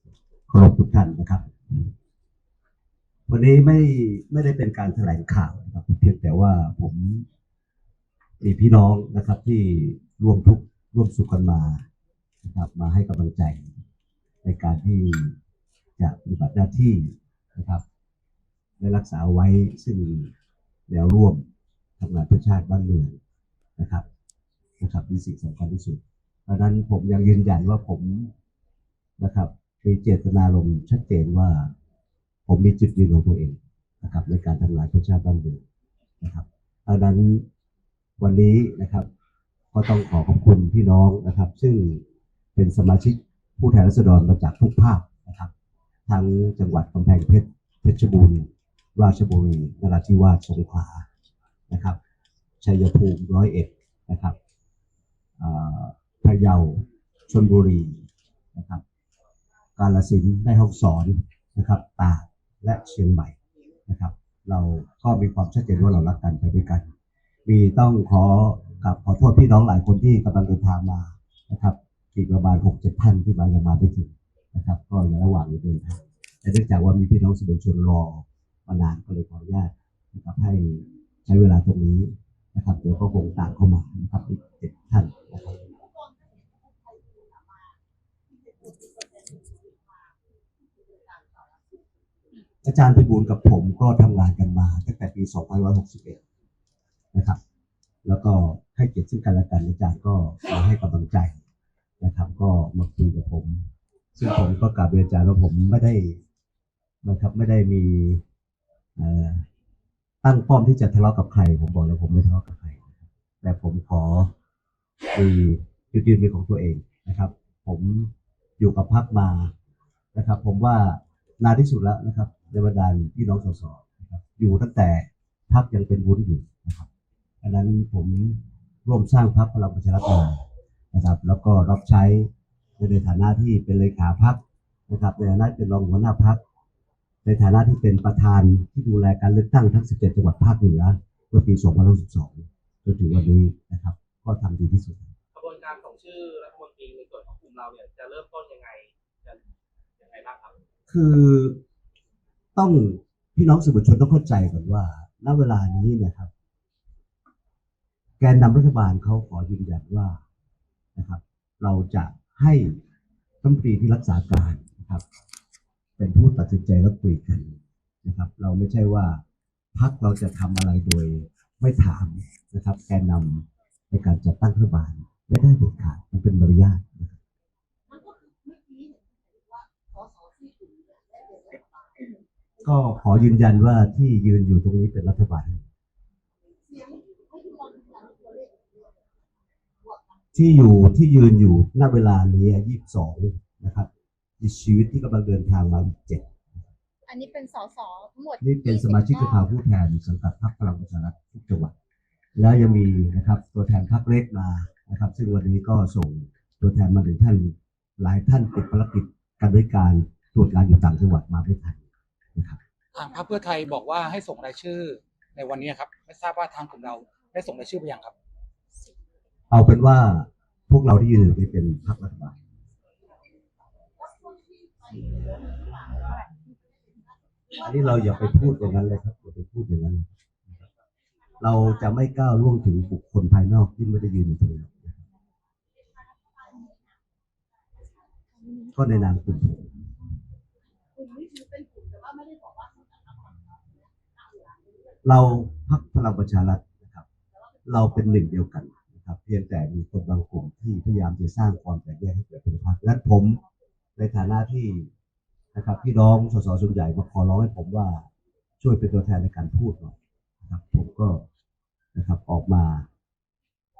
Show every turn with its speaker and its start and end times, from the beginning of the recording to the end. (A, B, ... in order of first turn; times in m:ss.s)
0:00.5-0:01.9 A
0:03.3-0:07.2 A
0:08.4-0:11.8 A
0:12.4-0:13.7 A
0:14.4-0:15.4 A
0:16.0-0:17.8 A
0:18.8-0:20.3 A
0:20.9-0:21.4 A
0:22.0-0:23.2 A
0:23.8-0:24.0 A
0:24.8-0:28.3 A
0:29.2-0:31.7 A
0:32.5-0:35.6 A
0:36.2-0:37.4 A
0:38.2-0:39.1 A
0:39.7-0:42.0 A
0:42.6-0:45.5 A
0:46.1-0:51.1 A
0:51.7-0:52.0 A
0:52.6-0:54.4 A
0:55.4-0:58.8 A
0:59.8-1:03.4 A
1:03.9-1:06.9 A
1:07.5-1:25.7 A
1:25.7-1:27.8 B
1:28.3-1:31.8 B
1:32.6-1:36.2 A
1:37.1-1:37.4 A
1:38.0-1:41.4 A
1:42.0-1:46.2 A
1:47.0-1:48.2 A
1:49.0-1:49.4 A
1:50.2-1:54.3 A
1:55.1-1:59.5 A
2:00.2-2:06.9 A
2:07.4-2:16.4 A
2:17.2-2:25.1 A
2:25.3-2:29.4 C
2:30.0-2:30.6 C
2:30.9-2:31.6 A
2:32.6-2:36.3 A
2:38.2-2:40.2 A
2:41.0-2:42.8 A
2:43.4-2:45.0 A
2:46.0-2:49.2 A
2:49.8-2:57.2 A
2:57.9-3:02.7 B
3:02.6-3:05.6 A
3:06.6-3:09.2 B
3:09.8-3:10.4 B
3:10.3-3:13.9 A
3:14.4-3:16.6 A
3:17.1-3:19.4 D
3:18.4-3:21.7 A
3:22.4-3:31.8 A
3:33.0-3:38.1 E
3:39.5-3:42.4 A
3:44.0-3:48.9 B
3:47.5-3:50.2 A
3:51.4-3:55.0 A
3:55.7-3:57.0 B
3:58.5-3:59.2 D
3:58.7-3:59.7 A
4:00.9-4:05.0 B
4:05.0-4:07.0 A
4:07.3-4:07.8 B
4:07.7-4:13.4 A
4:14.0-4:14.9 A
4:15.5-4:18.1 A
4:18.6-4:21.2 A
4:22.0-4:22.9 A